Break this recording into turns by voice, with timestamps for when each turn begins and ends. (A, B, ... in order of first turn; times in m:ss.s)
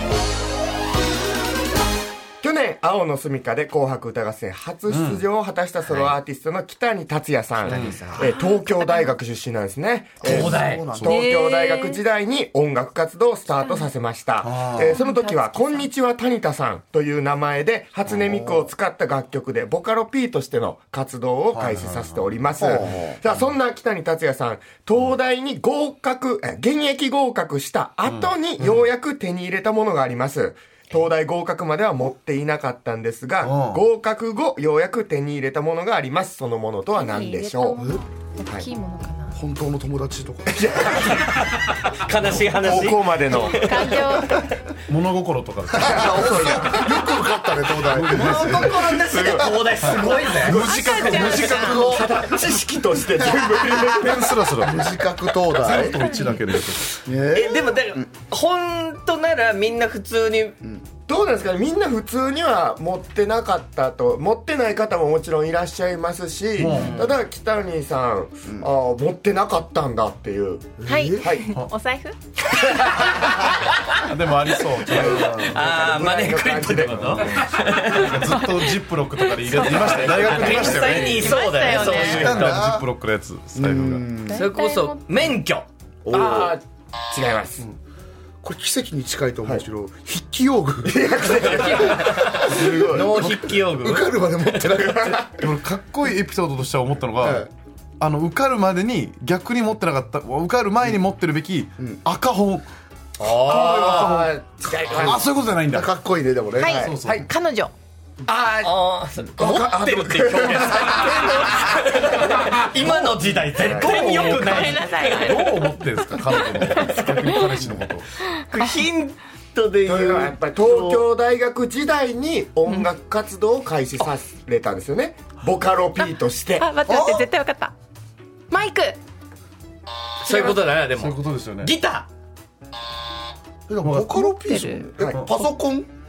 0:02.4-0:37.8 A
0:04.9-0:05.2 B
0:05.8-0:06.2 C
0:07.6-0:08.3 C
0:07.7-0:08.1 B
0:08.3-0:09.2 D
0:10.2-0:11.3 E
0:10.2-0:10.8 C
0:11.1-0:12.0 D
0:13.6-0:13.9 D
0:14.5-0:14.9 E
0:14.8-0:15.9 D
0:18.1-0:18.7 E
0:21.5-0:22.3 B
0:22.6-0:23.2 E
0:28.1-0:28.8 B
0:33.4-0:33.8 B
0:37.0-0:39.4 D
0:39.4-0:41.1 E
0:40.5-0:41.3 A
0:41.1-0:44.5 C
0:42.4-0:44.0 A
0:43.5-0:44.5 D
0:44.9-0:46.5 B
0:45.7-0:49.7 E
0:45.8-0:47.2 A
0:47.8-0:52.0 B
0:48.1-0:50.9 C
0:48.6-0:49.4 A
0:50.4-0:51.9 D
0:50.7-0:52.1 E
0:51.3-0:54.3 A
0:53.2-0:53.4 E
0:53.8-0:57.0 B
0:54.6-0:56.2 E
0:55.9-0:56.4 D
0:57.0-0:58.1 E
0:57.3-1:00.6 C
1:01.1-1:11.5 A
1:06.6-1:07.0 B
1:06.6-1:07.2 C
1:08.5-1:08.7 E
1:10.8-1:11.3 E
1:10.8-1:12.2 D
1:12.8-1:13.7 C
1:14.1-1:15.8 B
1:14.9-1:15.6 E
1:14.9-1:18.1 C
1:15.1-1:17.5 A
1:16.7-1:24.1 B
1:18.1-1:22.3 D
1:19.6-1:22.7 C
1:19.9-1:20.3 A
1:22.0-1:22.9 E
1:23.6-1:24.5 E
1:24.2-1:25.3 D
1:24.3-1:25.7 C
1:26.0-1:26.5 E
1:26.1-1:27.7 A
1:28.4-1:35.3 E
1:30.8-1:33.1 A
1:31.9-1:34.6 C
1:34.8-1:35.3 A
1:35.4-1:37.5 B
1:37.2-1:37.5 E
1:38.0-1:42.7 B
1:43.2-1:44.2 C
1:43.2-1:45.9 B
1:43.4-1:45.2 A
1:45.0-1:46.8 E
1:46.6-1:47.7 D
1:46.6-1:47.2 A
1:46.7-1:47.3 B
1:48.2-1:54.6 A
1:48.6-1:55.6 C
1:51.0-1:51.3 E
1:53.8-1:58.1 B
1:53.8-1:57.4 D
1:57.2-1:57.7 C
1:58.2-2:01.1 C
1:58.6-1:58.8 D
1:59.8-2:06.7 A
2:06.0-2:07.7 D
2:06.9-2:07.3 E
2:08.5-2:09.0 D
2:10.2-2:12.1 C
2:10.3-2:10.6 D
2:10.8-2:11.7 B
2:13.7-2:15.9 E
2:13.8-2:14.4 B
2:14.2-2:14.9 D
2:15.0-2:15.2 A